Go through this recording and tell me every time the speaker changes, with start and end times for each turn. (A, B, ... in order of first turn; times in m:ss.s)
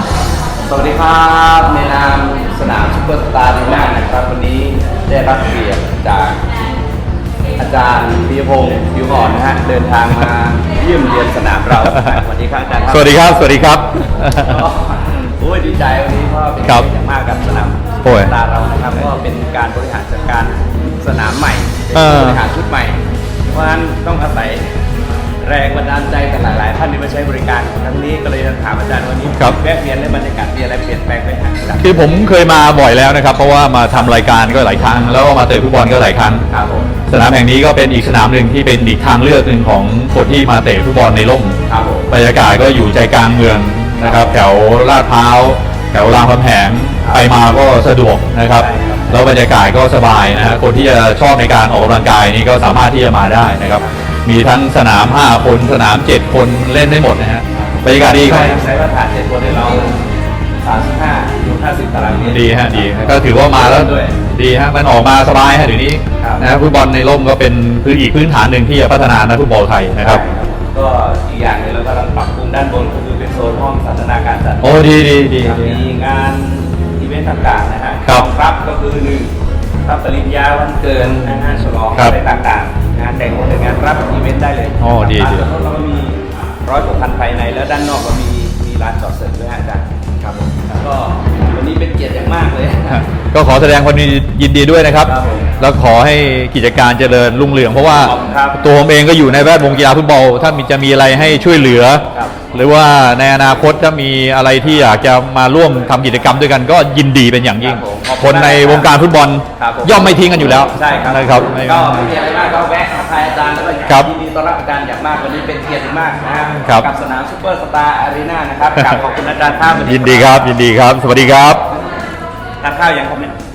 0:00.6-0:06.4 A
0:07.6-0:13.3 A
0:11.7-0:12.2 B
0:12.9-0:14.6 B
0:14.4-0:24.7 A
0:18.0-0:18.3 B
0:21.9-0:22.4 B
0:25.4-0:32.1 A
0:29.3-0:29.6 B
0:31.8-0:36.4 B
0:36.5-0:36.9 A
0:37.1-0:41.6 B
0:41.7-0:42.1 A
0:42.1-0:58.6 B
0:44.0-0:44.4 A
0:47.0-0:47.5 A
0:48.5-0:49.4 A
0:57.8-1:00.0 A
1:00.6-1:04.2 A
1:02.2-1:10.2 B
1:06.2-1:06.4 A
1:10.0-1:19.3 A
1:14.6-1:15.8 B
1:19.9-1:33.0 A
1:24.8-1:25.5 B
1:32.9-1:52.1 B
1:35.0-1:35.5 A
1:37.9-1:38.8 A
1:42.1-1:42.4 A
1:47.6-1:48.9 A
1:49.6-2:00.6 A
1:56.6-1:56.9 B
1:59.9-2:01.6 B
2:02.6-2:03.3 A